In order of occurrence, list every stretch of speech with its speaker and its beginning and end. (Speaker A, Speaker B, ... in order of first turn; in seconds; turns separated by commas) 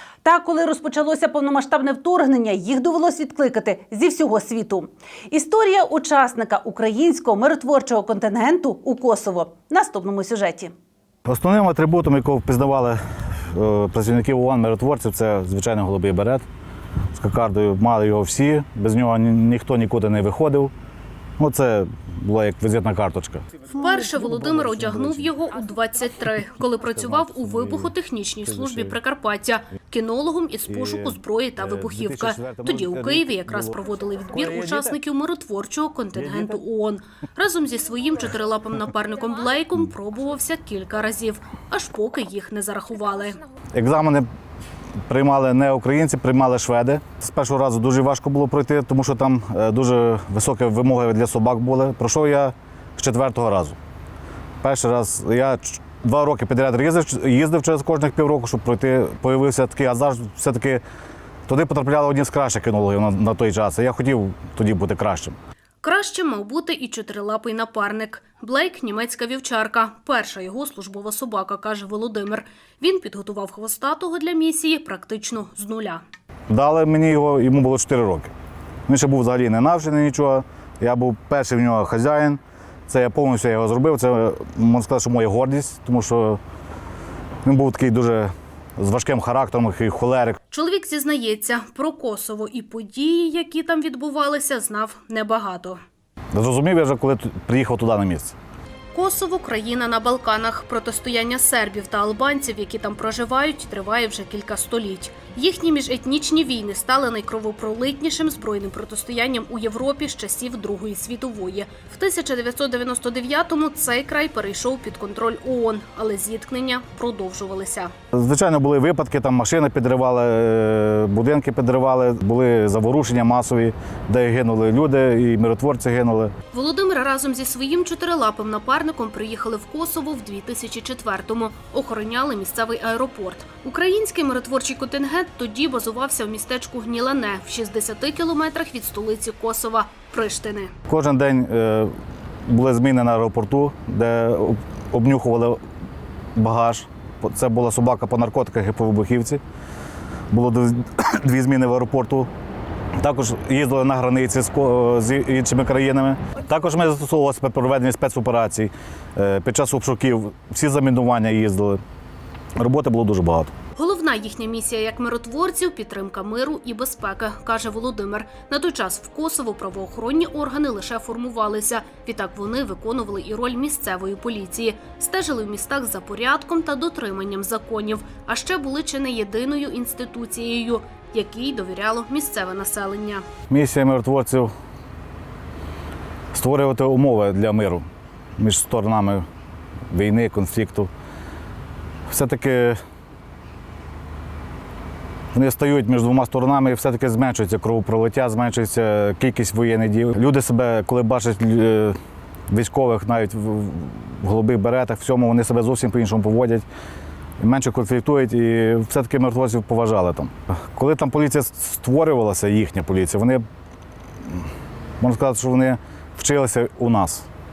Speaker A: 0.2-10.7, Speaker B: 11.3-16.4, Speaker B: 17.1-20.7, Speaker B: 21.4-23.5, Speaker C: 23.7-43.4, Speaker B: 30.7-33.8, Speaker B: 34.6-34.8, Speaker B: 43.7-44.3, Speaker B: 45.1-53.8, Speaker B: 54.6-60.8, Speaker B: 61.5-65.4, Speaker C: 65.8-76.0, Speaker B: 76.5-78.3, Speaker B: 78.9-86.4, Speaker B: 87.4-90.4, Speaker C: 90.5-95.8, Speaker B: 96.3-98.3, Speaker C: 98.9-117.9, Speaker B: 118.1-126.3, Speaker C: 126.5-140.7, Speaker B: 140.9-141.9, Speaker B: 142.5-145.6, Speaker B: 146.3-149.4, Speaker B: 150.3-152.3, Speaker B: 153.0-161.8, Speaker B: 162.6-163.5, Speaker C: 163.8-183.3, Speaker B: 183.5-184.5, Speaker B: 186.3-187.9, Speaker B: 188.4-189.2, Speaker B: 189.9-190.9, Speaker B: 192.1-192.8, Speaker B: 195.3-202.0, Speaker B: 202.5-206.7, Speaker B: 207.4-213.4, Speaker B: 215.0-217.3